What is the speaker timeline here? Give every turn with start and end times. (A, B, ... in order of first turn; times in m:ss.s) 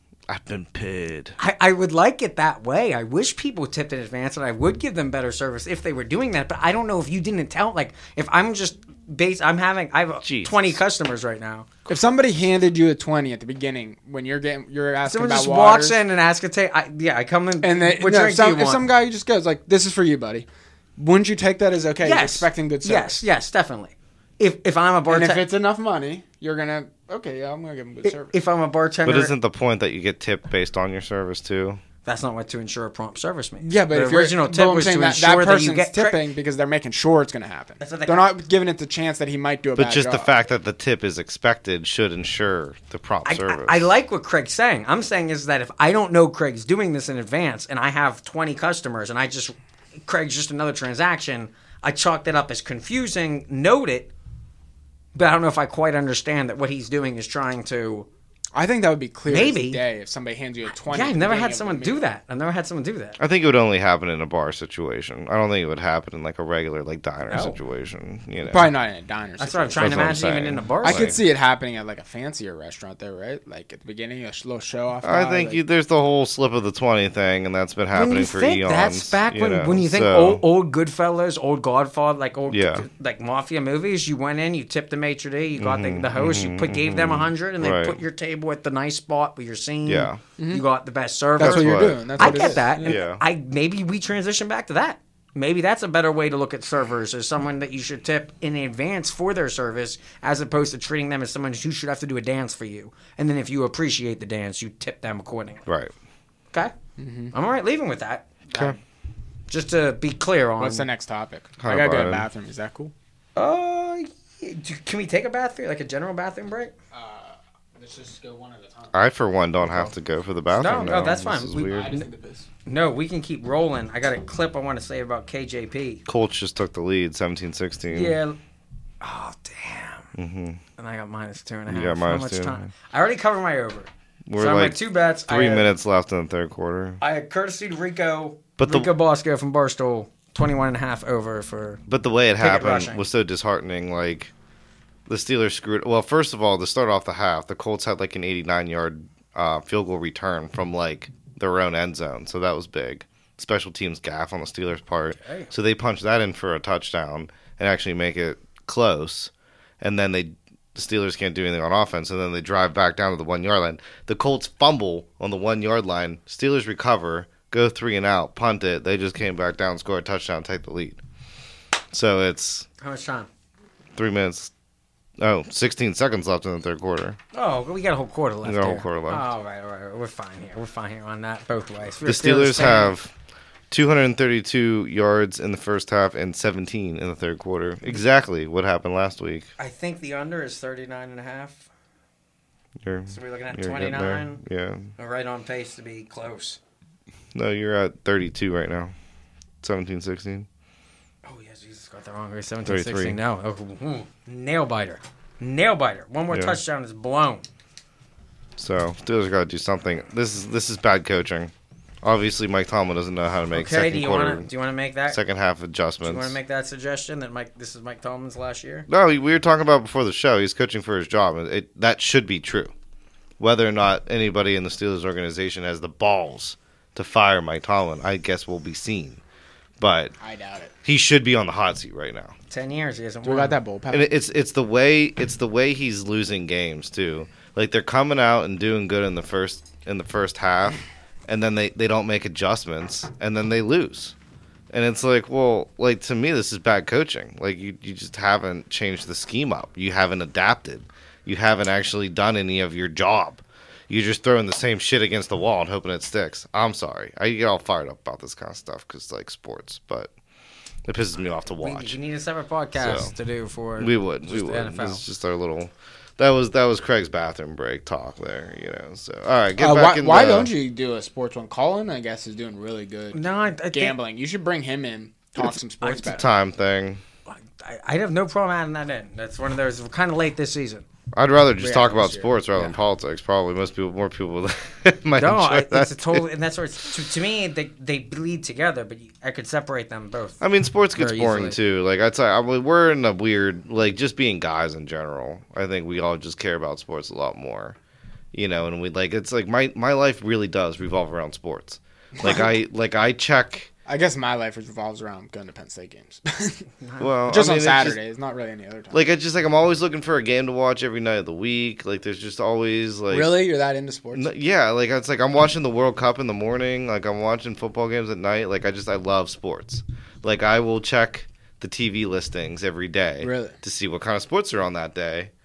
0:00.3-0:01.4 A
0:01.4-0:11.7 B
0:10.2-0:10.8 A
0:11.9-0:16.0 C
0:15.0-0:18.8 B
0:17.6-0:23.3 C
0:22.0-0:25.4 B
0:25.1-0:28.4 C
0:28.0-0:29.3 B
0:29.0-0:31.8 A
0:32.0-0:36.2 B
0:33.6-0:40.3 C
0:37.8-0:38.3 B
0:39.8-0:43.8 A
0:43.2-0:54.1 B
0:55.1-0:58.1 B
0:58.5-1:02.0 C
0:59.3-0:59.8 B
1:00.8-1:03.2 B
1:03.2-1:08.7 A
1:07.3-1:07.6 B
1:08.4-1:10.2 C
1:09.4-1:11.2 B
1:09.8-1:11.2 A
1:10.8-1:15.6 C
1:15.0-1:20.4 A
1:17.9-1:45.6 B
1:22.5-1:22.8 A
1:25.6-1:28.0 A
1:29.8-1:30.2 A
1:30.4-1:30.6 C
1:31.4-1:33.0 C
1:31.4-1:33.2 A
1:45.7-1:45.9 A
1:47.0-1:47.3 C
1:47.3-1:48.7 B
1:48.5-1:48.8 A
1:49.5-1:50.9 B
1:50.6-1:52.9 C
1:51.6-1:52.3 A
1:53.4-1:56.7 B
1:56.9-1:58.9 C
1:58.9-2:01.9 A
2:00.5-2:02.0 B
2:01.6-2:02.5 C
2:02.6-2:06.0 B
2:06.1-2:08.2 A
2:07.9-2:08.4 B
2:09.0-2:10.1 B
2:10.1-2:10.6 A
2:10.8-2:15.7 B
2:11.7-2:12.7 A
2:14.3-2:17.0 A
2:17.0-2:21.8 B
2:18.6-2:18.9 A
2:21.9-2:24.3 A
2:22.4-2:23.0 B
2:25.1-2:51.0 A
2:35.2-2:35.5 B
2:51.9-2:52.7 A
2:52.8-2:53.3 B
2:53.9-2:54.5 A
2:55.2-2:57.2 A
2:57.3-3:02.9 B
2:58.4-2:59.2 A
3:02.0-3:03.1 A
3:03.7-3:09.5 A
3:09.6-3:11.6 B
3:12.8-3:14.9 A
3:13.1-3:14.4 B
3:15.0-3:16.6 B
3:17.3-3:18.9 A
3:19.6-3:20.5 A
3:21.2-3:27.4 B
3:22.6-3:23.2 A
3:26.3-3:26.6 A
3:28.6-3:31.5 A
3:32.0-3:34.5 A
3:33.5-3:35.2 B
3:35.1-3:36.3 A
3:36.0-3:38.9 B
3:38.9-3:42.7 A
3:43.4-3:49.2 A
3:49.8-3:50.1 A
3:50.2-3:50.7 C
3:50.8-3:52.3 A
3:52.5-3:53.6 B
3:53.2-3:54.1 C
3:53.9-4:04.1 A
4:04.7-4:20.1 A
4:20.8-4:22.0 A
4:21.6-4:25.0 B
4:22.8-4:23.1 A
4:23.8-4:30.5 A
4:29.6-4:36.2 C
4:33.1-4:34.0 B
4:35.8-4:36.2 B
4:36.0-4:37.0 A
4:37.3-4:40.8 B
4:41.1-4:46.2 A
4:41.6-4:42.4 C
4:45.2-4:50.4 B
4:50.4-4:57.8 A
4:51.0-4:51.6 B
4:58.3-5:03.7 A
5:02.2-5:02.6 C
5:03.8-5:06.6 C
5:06.8-5:07.3 B
5:07.0-5:08.0 A
5:07.3-5:09.0 C
5:08.9-5:13.4 A
5:13.1-5:14.3 C
5:14.1-5:25.3 A
5:23.2-5:23.6 C